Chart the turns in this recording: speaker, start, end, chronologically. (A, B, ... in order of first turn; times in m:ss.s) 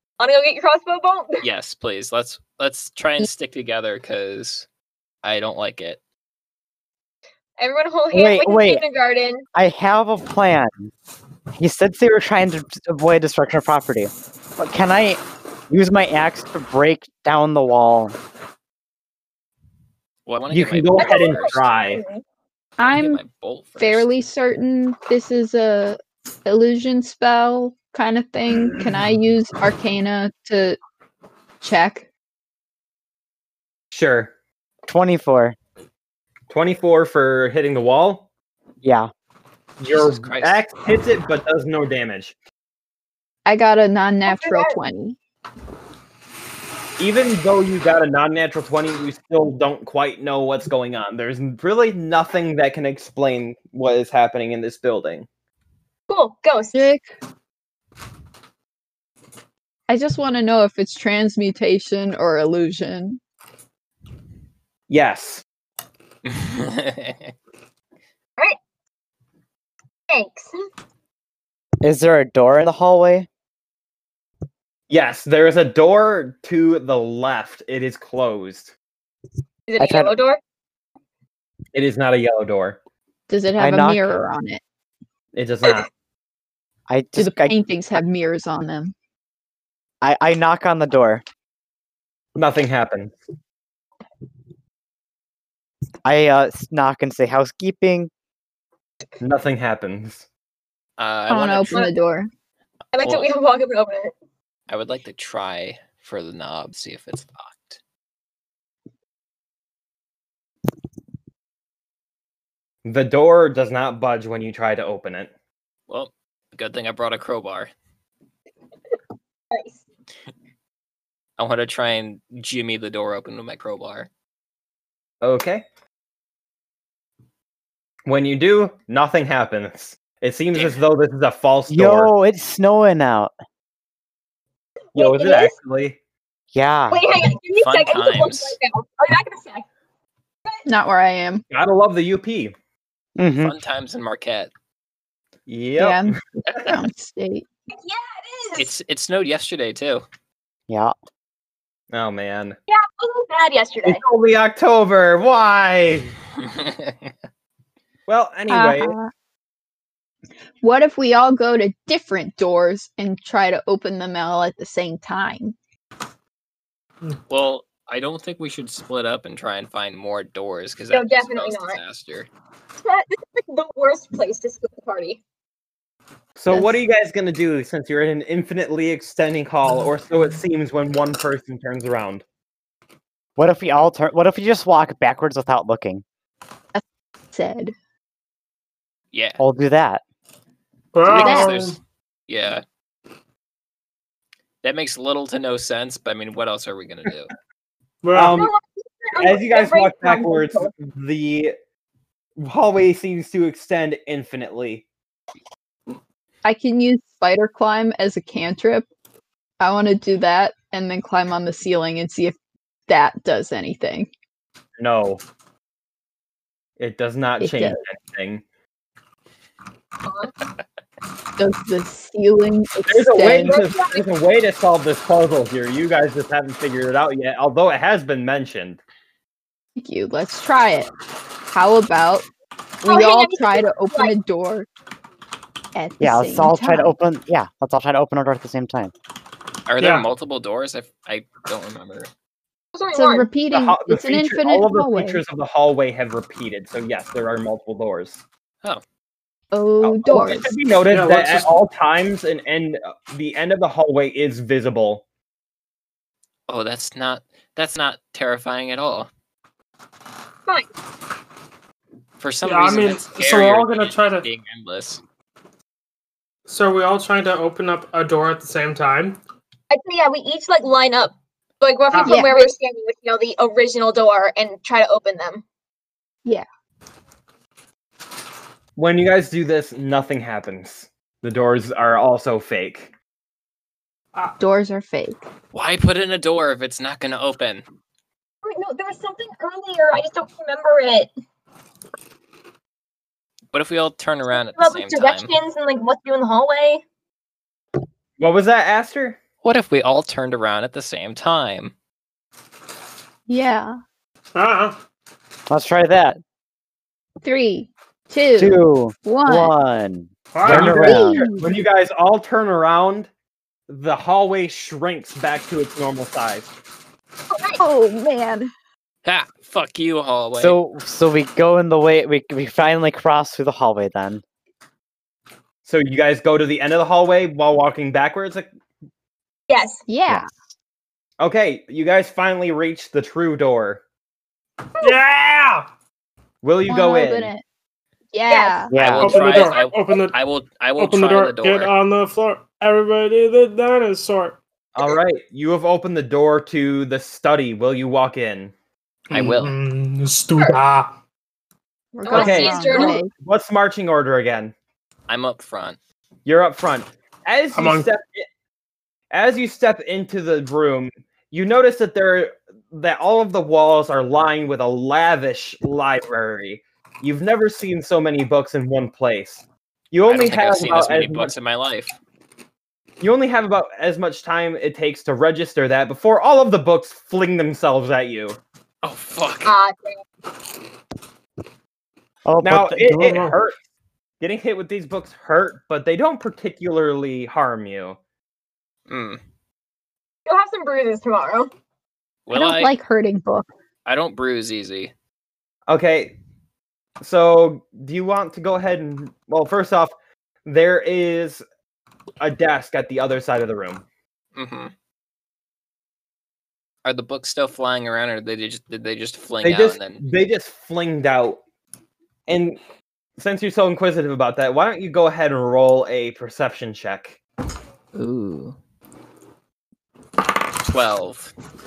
0:00.2-0:01.4 A
0:01.4-0:04.6 B
0:05.2-0:06.0 B
0:07.6-0:09.4 A
0:08.1-0:08.8 C
0:09.5-0:10.9 C
0:11.5-0:18.2 C
0:20.2-0:21.5 B
0:20.5-0:22.0 D
0:21.0-0:22.2 A
0:22.8-0:23.2 E
0:22.9-0:24.1 B
0:23.8-0:30.8 E
0:31.6-0:32.1 E
0:33.9-0:34.3 D
0:34.8-0:35.6 C
0:36.5-0:38.3 D
0:38.8-0:39.1 C
0:39.8-0:42.3 D
0:39.9-0:40.6 B
0:43.4-0:45.2 E
0:44.3-0:44.8 A
0:47.0-0:55.2 D
0:56.1-0:56.9 A
0:56.7-0:57.1 E
0:59.9-1:03.2 E
1:04.9-1:05.4 D
1:06.2-1:07.3 B
1:10.1-1:10.5 A
1:11.8-1:13.3 C
1:14.9-1:18.7 D
1:19.7-1:20.4 A
1:19.8-1:20.1 C
1:21.7-1:22.8 D
1:23.3-1:24.6 E
1:23.6-1:24.1 C
1:25.3-1:25.9 D
1:26.9-1:27.5 C
1:27.2-1:28.9 E
1:30.0-1:31.2 C
1:32.4-1:33.1 D
1:36.0-1:38.1 C
1:39.2-1:40.2 D
1:41.0-1:41.9 B
1:41.3-1:42.3 E
1:42.9-1:44.1 A
1:44.7-1:47.8 B
1:52.8-1:55.3 D
1:55.9-1:57.7 B
1:59.5-1:59.8 A
2:01.4-2:04.1 B
2:05.2-2:05.6 D
2:08.1-2:12.1 D
2:10.5-2:10.8 B
2:11.7-2:13.3 C
2:14.9-2:15.5 A
2:14.9-2:16.0 D
2:16.5-2:17.0 C
2:16.9-2:19.6 A
2:17.6-2:18.6 B
2:20.6-2:21.4 E
2:21.5-2:22.5 D
2:23.2-2:23.5 C
2:23.4-2:24.5 B
2:25.5-2:26.7 D
2:25.8-2:27.4 E
2:27.7-2:28.7 A
2:28.6-2:30.0 B
2:30.7-2:30.9 C
2:31.9-2:32.6 D
2:32.7-2:34.0 A
2:33.8-2:36.1 D
2:36.5-2:36.9 B
2:38.1-2:38.9 D
2:38.5-2:39.1 E
2:40.6-2:45.5 E
2:47.3-2:52.3 B
2:50.9-2:51.8 A
2:52.8-2:55.2 A
2:56.4-3:02.2 D
3:03.4-3:06.0 C
3:06.7-3:07.7 E
3:09.1-3:09.4 B
3:09.4-3:10.0 C
3:10.9-3:11.8 F
3:11.0-3:12.6 B
3:11.2-3:11.5 E
3:14.6-3:17.3 B
3:18.0-3:18.4 F
3:18.1-3:18.5 D
3:18.3-3:20.7 A
3:19.2-3:21.5 D
3:22.4-3:24.8 D
3:26.4-3:28.9 E
3:29.6-3:32.4 E
3:32.9-3:34.1 E
3:34.8-3:35.2 D
3:36.8-3:38.4 D
3:37.4-3:37.8 E
3:40.0-3:40.3 A
3:41.4-3:43.6 E
3:42.9-3:48.8 D
3:43.4-3:44.0 A
3:49.8-3:50.9 E
3:51.5-3:52.2 E
3:52.8-3:54.7 E
3:52.8-3:54.1 A
3:55.7-3:56.9 E
3:56.0-3:58.9 C
3:59.7-4:02.1 B
3:59.8-4:00.0 F
4:02.7-4:03.3 A
4:02.9-4:05.2 E
4:03.5-4:08.2 D
4:09.5-4:10.5 E
4:09.8-4:15.0 D
4:10.9-4:11.6 F
4:16.5-4:19.1 B
4:22.2-4:25.0 B
4:22.4-4:24.3 F
4:26.5-4:29.2 F
4:29.7-4:35.4 A
4:31.9-4:32.2 F
4:32.0-4:32.5 E
4:38.8-4:42.9 D
4:44.4-4:45.2 E
4:45.5-4:47.6 B
4:48.4-4:51.1 A
4:53.5-4:55.3 B
4:54.3-4:56.8 A
4:58.2-4:59.2 D
4:59.4-5:01.7 B
5:03.3-5:03.8 E
5:04.3-5:04.8 F
5:05.5-5:06.2 C
5:07.2-5:09.5 E
5:08.4-5:10.9 C
5:10.3-5:11.2 F
5:10.4-5:13.1 D
5:10.8-5:11.5 E
5:13.7-5:16.5 D
5:17.3-5:17.6 A
5:17.6-5:18.5 E
5:19.0-5:20.6 B
5:20.4-5:24.2 C
5:25.6-5:28.5 D
5:29.5-5:29.8 A
5:29.9-5:30.3 E
5:31.2-5:33.8 D
5:34.8-5:35.7 F
5:36.4-5:37.3 D
5:36.7-5:37.4 E
5:38.1-5:38.7 E
5:38.3-5:38.7 A
5:38.7-5:39.2 C
5:38.7-5:41.7 B
5:39.0-5:40.2 F
5:39.3-5:39.6 A
5:40.8-5:44.4 F
5:44.7-5:48.5 D
5:49.1-5:51.0 F
5:49.1-5:49.5 B
5:52.0-5:53.1 E
5:52.0-5:53.0 A
5:52.1-5:54.5 D
5:55.1-5:55.8 B
5:56.2-5:58.3 D
5:57.5-5:57.9 F
5:59.1-6:11.3 D
6:10.0-6:11.9 B
6:13.0-6:18.4 D
6:18.8-6:19.6 B
6:19.4-6:20.0 A
6:22.2-6:23.4 C
6:22.4-6:23.6 D
6:24.2-6:28.0 D
6:28.9-6:29.2 B
6:30.2-6:31.5 A
6:32.2-6:32.7 B
6:32.3-6:33.5 E
6:33.8-6:34.9 B
6:35.7-6:36.2 D
6:37.0-6:39.9 D
6:40.4-6:41.4 D
6:42.2-6:43.8 D
6:44.4-6:44.7 B
6:46.8-6:50.0 B
6:49.4-6:51.4 D
6:52.3-6:52.6 D
6:53.2-6:57.2 D
6:57.9-6:58.6 B
7:00.7-7:01.3 B